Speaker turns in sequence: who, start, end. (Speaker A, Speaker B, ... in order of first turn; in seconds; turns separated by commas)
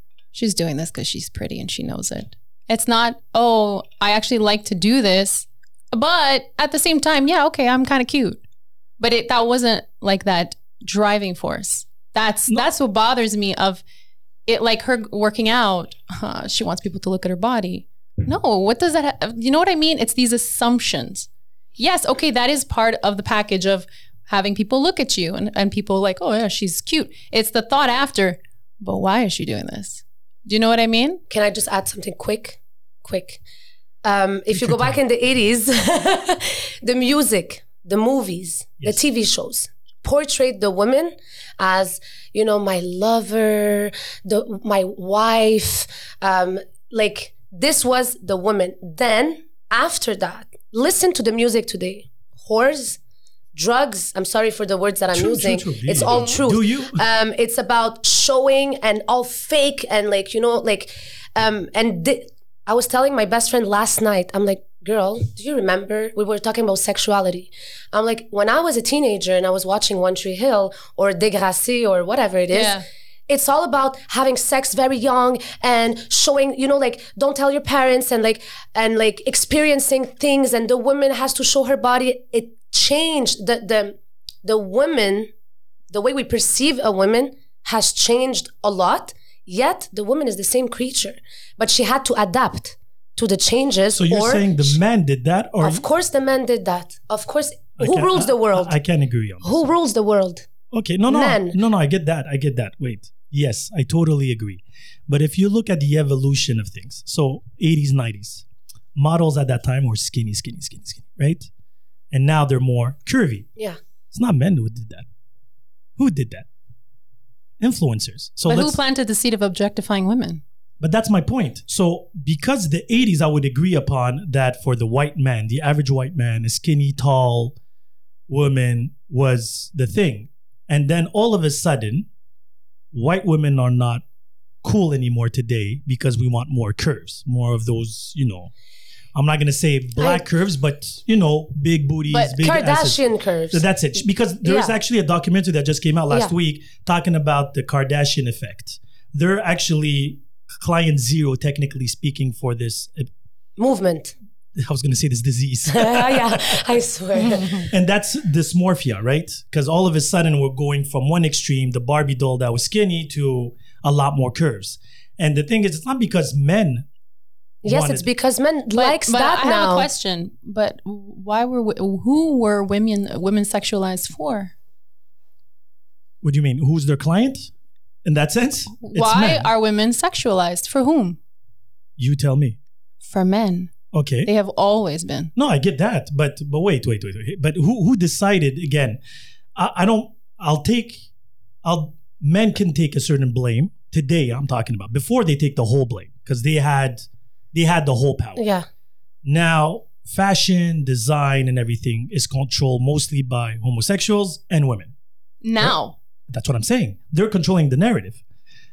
Speaker A: 0.3-8.4, Speaker A: 9.0-13.8, Speaker A: 14.5-31.2, Speaker B: 31.3-33.4, Speaker B: 34.0-53.0, Speaker C: 34.5-35.0, Speaker B: 53.5-72.8, Speaker C: 55.1-57.0, Speaker A: 72.5-72.8, Speaker B: 73.3-85.3, Speaker B: 85.9-94.8, Speaker C: 93.9-95.8, Speaker B: 95.6-98.8, Speaker C: 97.8-99.6, Speaker B: 99.4-100.5, Speaker C: 100.7-111.5, Speaker B: 101.1-101.6, Speaker C: 112.1-113.5, Speaker C: 114.1-115.1, Speaker C: 116.0-116.5, Speaker C: 117.6-118.8, Speaker A: 118.5-120.4, Speaker C: 120.8-127.6, Speaker C: 128.3-132.1, Speaker C: 132.9-134.0, Speaker C: 134.6-138.5, Speaker C: 139.2-143.0, Speaker A: 142.1-142.4, Speaker B: 142.4-143.6, Speaker C: 143.5-153.1, Speaker B: 144.4-144.7, Speaker B: 153.6-154.1, Speaker C: 154.6-156.6, Speaker B: 155.7-157.7, Speaker C: 157.2-166.9, Speaker C: 167.6-168.1, Speaker B: 167.7-169.9, Speaker A: 168.8-174.5, Speaker C: 176.2-177.5, Speaker C: 178.1-179.5, Speaker A: 178.8-181.2, Speaker C: 182.0-182.6, Speaker A: 183.0-185.3, Speaker C: 183.9-184.3, Speaker C: 185.4-189.0, Speaker C: 189.6-191.1, Speaker C: 191.6-198.4, Speaker B: 198.4-198.7, Speaker C: 199.2-204.9, Speaker A: 205.4-205.9, Speaker C: 206.3-208.2